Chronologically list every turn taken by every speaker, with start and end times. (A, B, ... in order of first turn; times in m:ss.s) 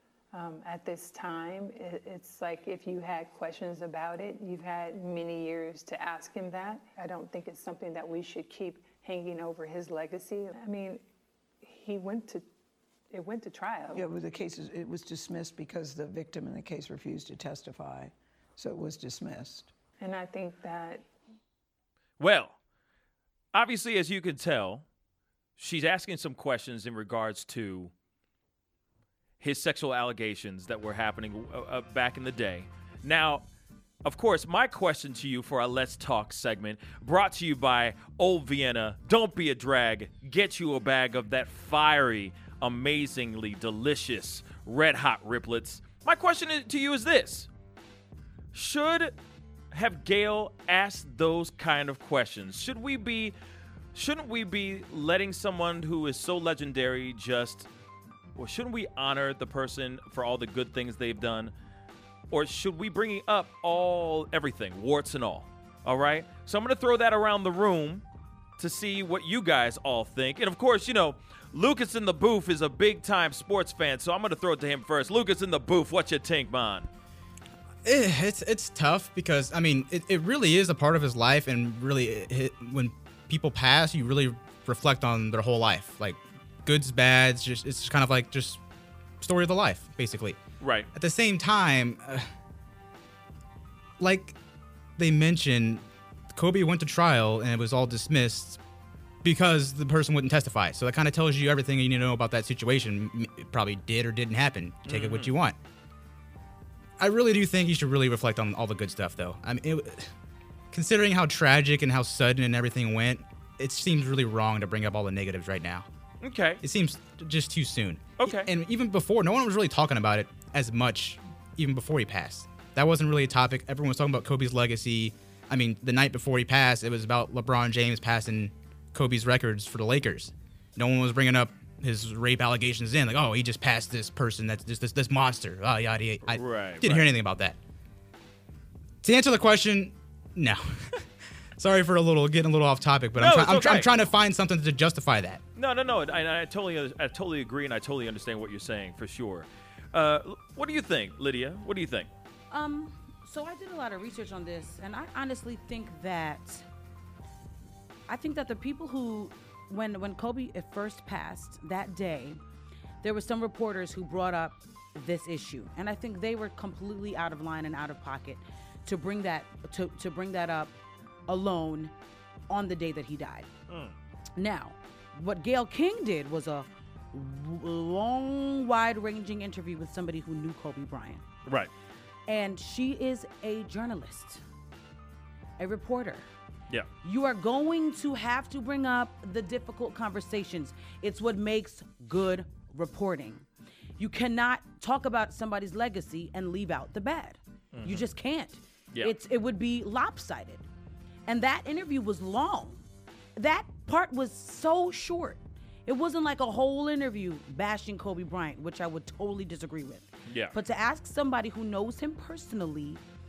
0:00.3-0:11.0 A
0:11.6-0:12.4 A
0:13.1-0:14.1 A
0:13.9-0:19.7 B
0:20.0-0:21.1 A
0:22.2-0:22.6 C
0:23.5-0:24.8 C
0:25.6-0:27.9 C
0:29.4-0:33.5 C
0:34.0-0:47.5 C
0:48.5-0:49.1 C
0:49.7-0:53.4 C
0:53.9-0:57.7 C
0:58.4-1:01.5 C
1:02.3-1:08.0 C
1:08.6-1:16.9 C
1:17.8-1:28.6 D
1:29.2-1:30.4 D
1:30.6-1:30.9 C
1:30.9-1:32.3 D
1:34.0-1:34.4 D
1:35.0-1:38.6 D
1:39.2-1:45.6 D
1:44.9-1:45.3 C
1:47.0-1:50.1 D
1:50.7-1:55.9 D
1:56.2-1:56.6 C
1:56.6-2:17.6 D
1:58.2-1:58.5 C
2:16.3-2:17.1 C
2:19.0-2:21.0 D
2:21.6-2:25.4 D
2:23.2-2:23.9 C
2:25.6-2:32.1 C
2:32.5-2:36.6 E
2:38.1-2:42.4 E
2:43.0-2:50.7 E
2:51.3-2:51.9 E
2:52.5-2:53.5 E
2:53.7-2:54.0 C
2:54.4-3:01.2 E
3:01.5-3:01.7 C
3:02.3-3:04.4 E
3:05.6-3:06.3 E
3:07.0-3:13.4 E
3:14.0-3:20.6 E
3:17.7-3:18.1 C
3:21.3-3:22.8 E
3:23.4-3:33.0 E
3:30.3-3:30.6 C